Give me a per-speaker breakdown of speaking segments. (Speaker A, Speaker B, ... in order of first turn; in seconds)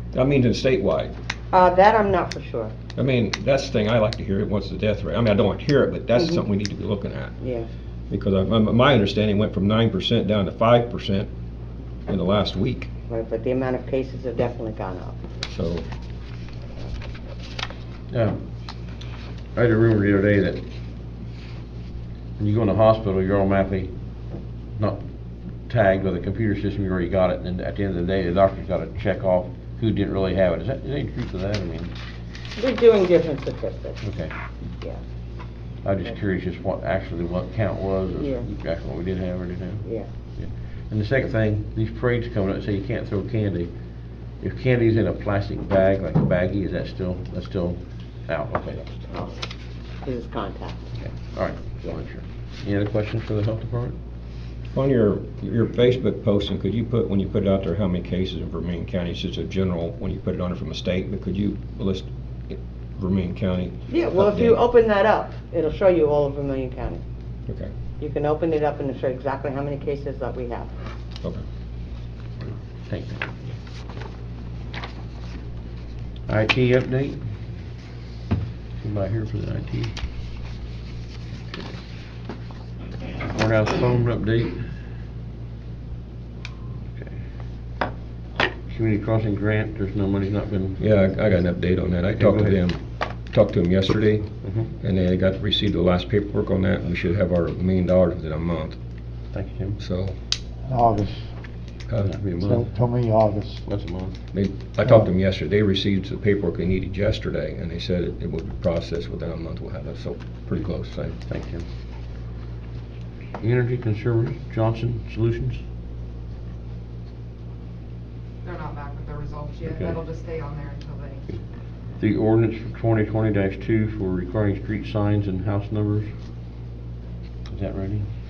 Speaker A: 0.1-1.1, 3.0-7.3, 8.1-11.3, 12.1-12.9, 15.5-15.9, 54.7-64.6, 90.8-94.3, 94.8-98.8, 99.8-100.2, 101.9-102.2, 104.3-111.2
Speaker B: 1.5-2.7, 7.4-7.7, 13.1-15.2, 32.6-34.0, 38.2-38.4, 48.9-49.4, 50.0-50.9, 63.9-67.0, 68.0-70.7
Speaker C: 18.1-18.4, 19.5-20.6, 22.4-23.9, 25.7-31.9, 34.0-34.3, 35.8-39.8, 40.4-43.7, 44.4-48.8, 51.0-54.0, 72.4-73.4, 76.3-77.2, 78.8-79.9, 83.2-84.7, 88.7-90.8, 92.1-92.6, 94.4-94.7, 99.3-99.8, 102.0-102.8, 103.6-104.2, 111.3-111.7, 113.4-115.6, 122.0-126.1, 127.5-128.1
Speaker D: 100.7-101.3, 102.4-103.6, 104.8-105.1
Speaker E: 118.4-121.2